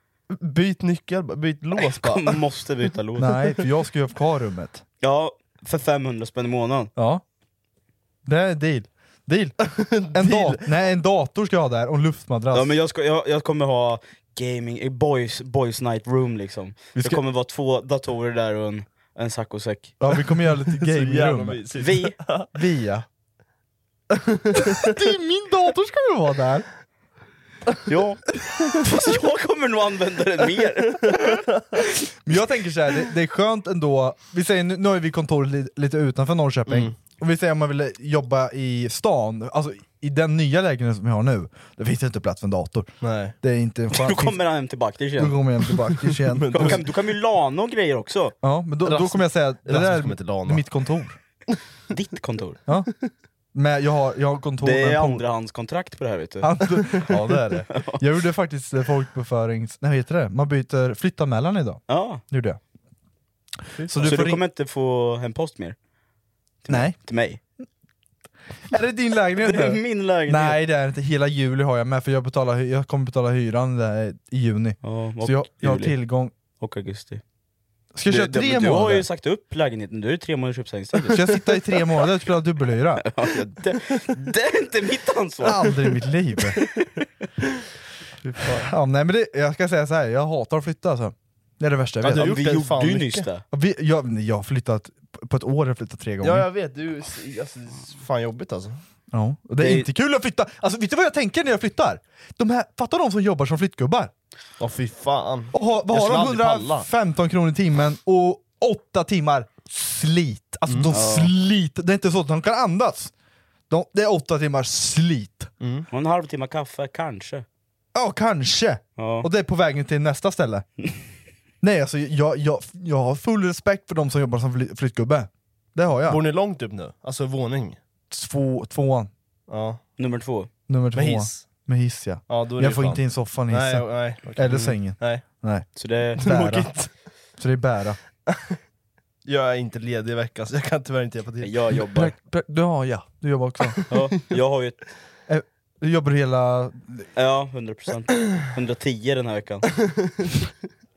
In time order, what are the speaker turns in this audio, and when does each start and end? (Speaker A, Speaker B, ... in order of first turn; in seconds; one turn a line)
Speaker A: 0.3-2.4
Speaker B: 1.8-3.4
Speaker C: 3.2-4.8
Speaker B: 5.0-6.9
Speaker C: 7.0-7.2
Speaker C: 8.3-12.7
Speaker A: 9.6-10.7
Speaker B: 12.5-19.9
Speaker C: 20.0-21.6
Speaker A: 20.6-22.5
Speaker B: 21.8-22.2
Speaker C: 22.5-23.1
Speaker A: 24.2-24.6
Speaker C: 24.6-26.7
Speaker B: 27.9-28.2
Speaker B: 28.8-31.4
Speaker C: 32.2-44.4
Speaker A: 36.7-36.9
Speaker A: 43.0-43.4
Speaker B: 43.9-45.4
Speaker C: 45.2-46.8
Speaker A: 45.9-46.9
Speaker B: 46.5-48.4
Speaker C: 48.4-51.2
Speaker A: 48.9-50.6
Speaker B: 51.9-52.6
Speaker C: 52.7-52.9
Speaker C: 53.5-55.2
Speaker B: 54.6-56.7
Speaker C: 56.4-62.6
Speaker B: 57.7-58.0
Speaker B: 61.9-62.2
Speaker A: 63.8-64.1
Speaker C: 63.8-64.4
Speaker B: 64.0-65.8
Speaker B: 66.7-67.4
Speaker C: 66.7-67.0
Speaker C: 68.7-76.3
Speaker B: 69.4-70.6
Speaker B: 74.8-76.0
Speaker B: 76.6-77.2
Speaker C: 77.9-79.1
Speaker B: 78.1-81.3
Speaker C: 81.1-83.0
Speaker B: 83.0-85.6
Speaker C: 85.4-86.6
Speaker A: 88.2-88.7
Speaker C: 88.5-92.5
Speaker A: 92.0-93.3
Speaker B: 92.0-93.4
Speaker C: 93.5-96.5
Speaker A: 96.2-98.8
Speaker C: 99.1-104.1
Speaker B: 99.6-99.9
Speaker A: 104.6-106.9
Speaker C: 105.5-113.1
Speaker B: 110.9-111.3
Speaker C: 113.7-115.5
Speaker A: 115.6-115.9
Speaker B: 115.9-117.5
Speaker C: 118.0-120.7
Speaker B: 119.0-119.3
Speaker C: 121.6-126.2
Speaker A: 126.1-127.8
Speaker C: 128.1-129.1
Speaker A: 129.5-129.8
Speaker B: 130.0-130.5
Speaker C: 130.7-135.7
Speaker A: 130.9-131.5
Speaker A: 132.3-135.2
Speaker B: 135.8-136.3
Speaker C: 136.2-136.7
Speaker A: 136.2-136.9
Speaker C: 137.4-138.0
Speaker A: 138.3-138.6
Speaker A: 139.3-141.6
Speaker B: 141.4-142.1
Speaker C: 141.9-143.8
Speaker B: 143.9-144.9
Speaker C: 145.3-147.1
Speaker B: 147.2-149.7